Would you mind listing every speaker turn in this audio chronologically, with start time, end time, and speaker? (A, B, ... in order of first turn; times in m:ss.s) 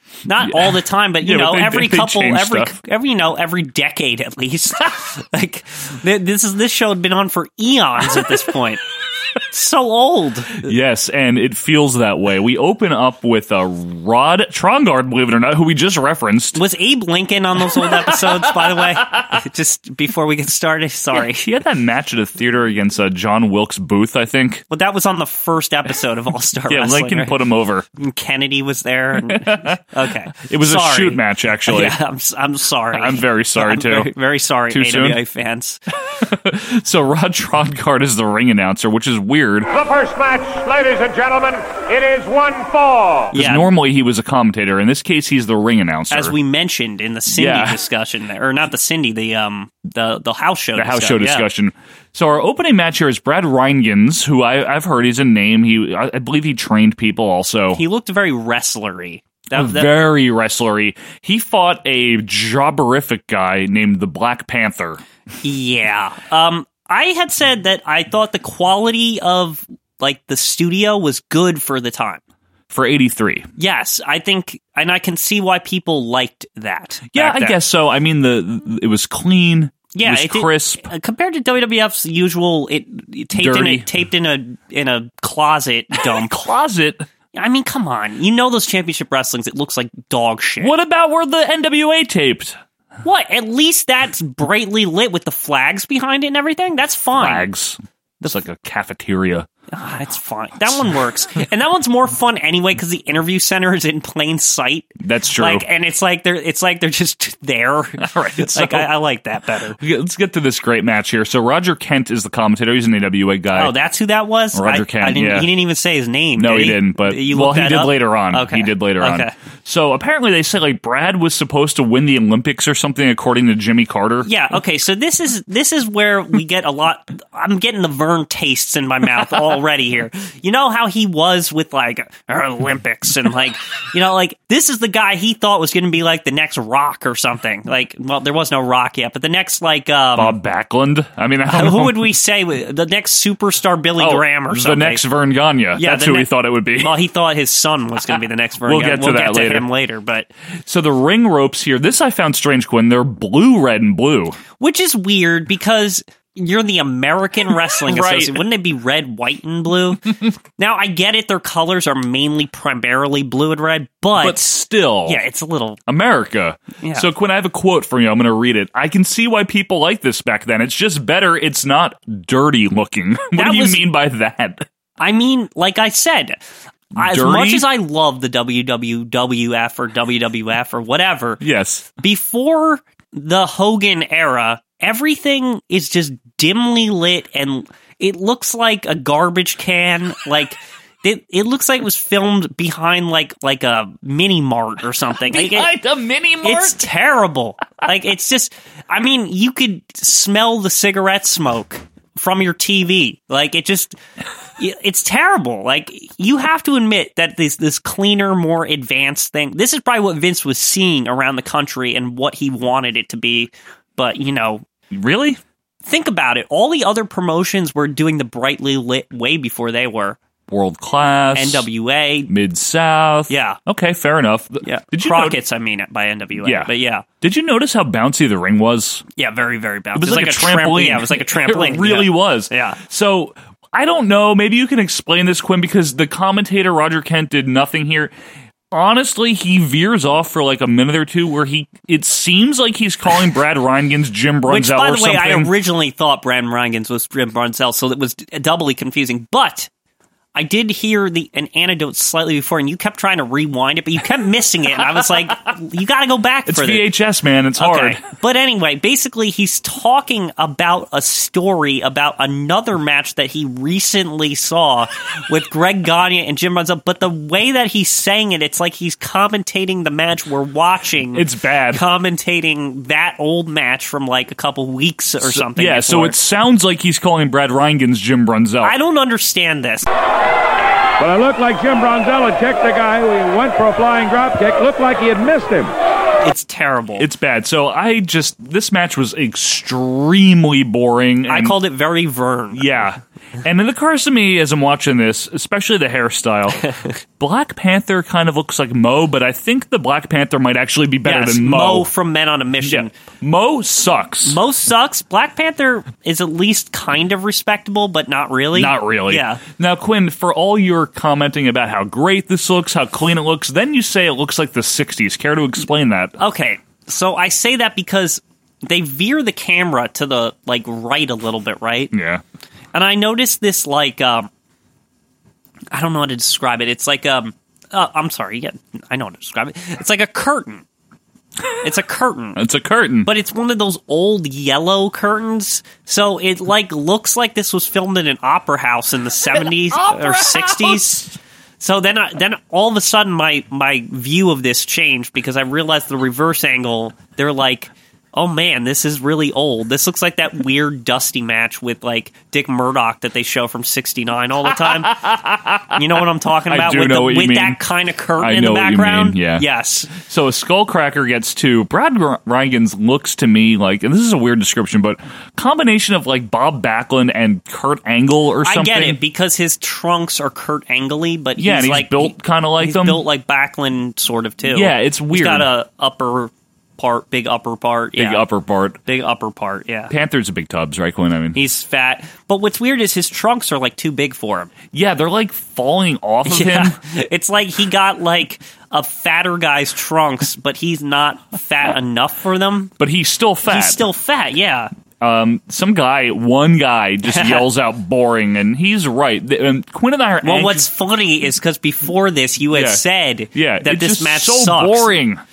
0:00.2-0:08.8 A
0:00.4-0:02.7 B
0:09.5-0:10.7 A
0:10.6-0:16.6 B
0:16.5-0:21.4 A
0:17.8-0:18.6 B
0:21.1-0:24.6 B
0:24.7-0:27.3 A
0:26.7-0:27.8 B
0:28.0-0:35.8 A
0:29.2-0:29.8 B
0:30.3-0:32.0 B
0:32.9-0:34.1 B
0:34.7-0:35.2 B
0:36.2-0:39.7 B
0:39.8-0:43.3 C
0:43.3-0:46.4 B
0:43.3-0:43.7 A
0:46.1-0:51.4 A
0:47.3-0:47.8 B
0:50.7-0:57.8 B
0:57.7-0:59.9 A
0:59.5-1:05.0 B
1:05.4-1:12.2 A
1:12.7-1:13.5 B
1:13.6-1:17.6 A
1:17.1-1:20.9 B
1:19.9-1:26.4 A
1:23.3-1:23.9 B
1:26.0-1:27.1 B
1:27.3-1:30.7 A
1:30.6-1:32.6 B
1:33.0-1:37.5 A
1:37.1-1:39.5 B
1:39.7-1:49.8 A
1:45.0-1:45.6 B
1:48.0-1:48.9 B
1:49.8-1:53.7 B
1:53.5-1:59.3 A
1:54.5-1:55.5 B
1:56.4-2:04.3 B
2:04.2-2:20.4 A
2:20.1-2:22.1 B
2:21.5-2:25.0 A
2:24.0-2:27.0 B
2:25.8-2:30.3 A
2:28.6-2:29.7 B
2:30.6-2:34.4 B
2:34.6-2:44.5 A
2:37.8-2:38.4 B
2:44.2-2:45.2 B
2:45.0-2:45.8 A
2:45.9-2:54.6 B
2:46.8-2:47.1 A
2:53.3-2:53.8 A
2:55.0-2:56.4 A
2:56.9-2:57.7 B
2:56.9-3:01.4 A
3:01.4-3:01.9 B
3:02.0-3:15.7 A
3:15.2-3:16.8 B
3:16.4-3:24.0 A
3:24.6-3:34.6 A
3:34.9-3:35.4 B
3:35.8-3:40.2 A
3:40.5-3:41.7 B
3:41.3-3:42.3 A
3:42.3-3:45.4 B
3:43.3-3:43.6 A
3:44.6-3:47.0 A
3:46.4-3:49.0 B
3:49.2-3:52.8 A
3:49.9-3:58.1 B
3:58.7-4:05.5 B
4:04.5-4:09.7 A
4:10.3-4:16.9 A
4:16.5-4:18.0 B
4:17.6-4:36.2 A
4:31.1-4:31.8 B
4:35.2-4:38.7 B
4:38.6-4:39.9 A
4:41.0-4:45.7 D
4:46.2-4:47.0 A
4:47.0-4:51.6 B
4:51.3-4:52.8 A
4:52.5-5:01.9 B
5:01.0-5:02.9 A
5:02.6-5:04.4 B
5:04.2-5:09.4 A
5:08.5-5:16.2 B
5:16.2-5:21.9 A
5:21.9-5:22.2 B
5:22.7-5:24.3 A
5:25.7-5:30.6 A
5:31.6-5:32.4 A
5:32.3-5:33.1 B
5:33.0-5:41.1 A
5:39.3-5:41.1 B
5:41.6-5:55.0 A
5:54.4-5:55.8 B
5:55.7-5:59.9 A
5:56.5-5:57.6 B
5:58.2-6:09.0 B
6:08.4-6:18.2 A
6:11.4-6:13.0 B
6:14.4-6:15.5 B
6:18.0-6:18.8 B
6:18.8-6:19.9 A
6:19.9-6:21.4 B
6:21.3-6:24.5 A
6:24.7-6:26.8 B
6:26.2-6:32.7 A
6:32.8-6:33.8 B
6:33.5-6:34.7 A
6:35.0-6:40.7 B
6:37.0-6:37.4 A
6:40.2-6:44.9 A
6:42.5-6:45.2 B